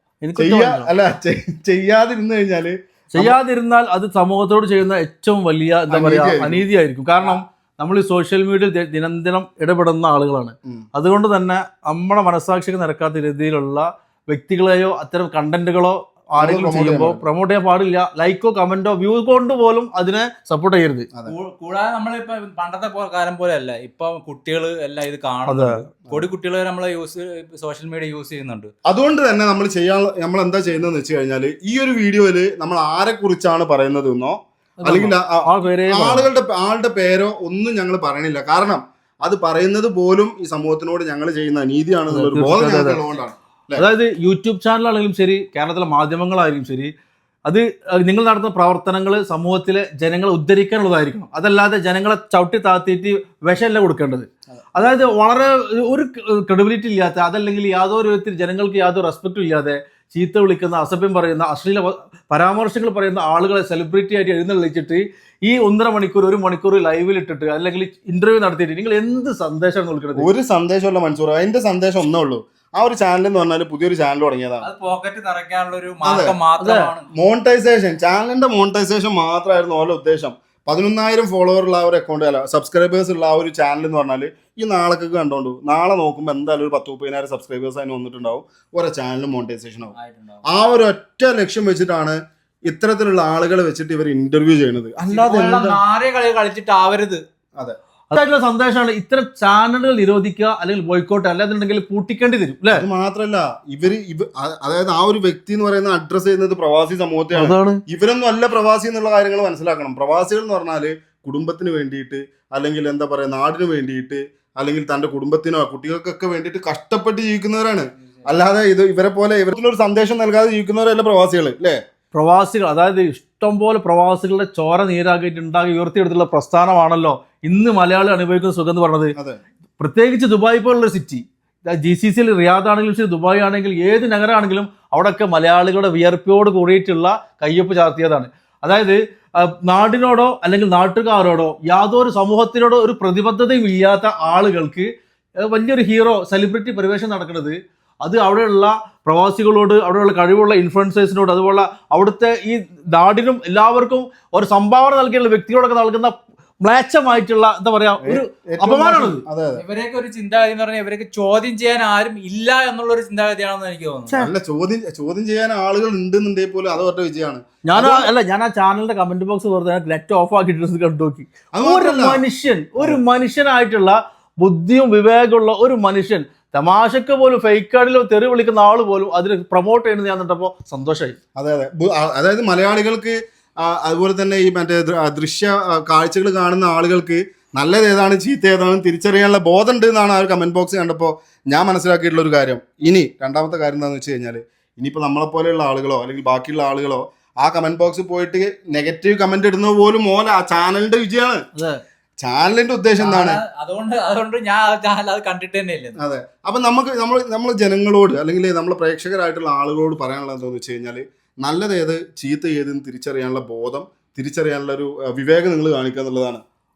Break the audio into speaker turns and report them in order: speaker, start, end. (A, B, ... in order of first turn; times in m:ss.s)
0:00.2-0:00.9 A
0:00.4-0:03.4 B
0:03.1-0:21.1 A
0:05.9-0:06.6 B
0:16.4-0:17.2 B
0:21.2-0:28.7 C
0:25.5-0:25.8 A
0:28.9-0:43.8 B
0:34.8-0:36.3 A
0:42.1-0:43.0 A
0:43.8-0:46.9 A
0:47.4-1:10.3 A
1:10.2-1:14.7 B
1:14.6-1:17.1 C
1:16.0-1:16.3 B
1:16.6-1:16.9 A
1:17.1-1:29.9 B
1:29.9-1:30.4 C
1:30.4-1:35.8 B
1:35.1-1:37.2 C
1:38.1-1:42.8 A
1:42.7-2:01.8 B
1:47.3-1:47.8 A
2:02.1-2:09.1 A
2:09.8-2:39.2 A
2:38.0-2:39.6 B
2:39.6-2:44.2 C
2:44.2-2:48.1 B
2:47.6-3:01.2 A
2:51.5-2:52.2 B
3:01.4-3:21.4 B
3:21.5-3:21.8 A
3:22.2-3:23.4 B
3:23.0-3:26.0 C
3:26.0-3:36.4 B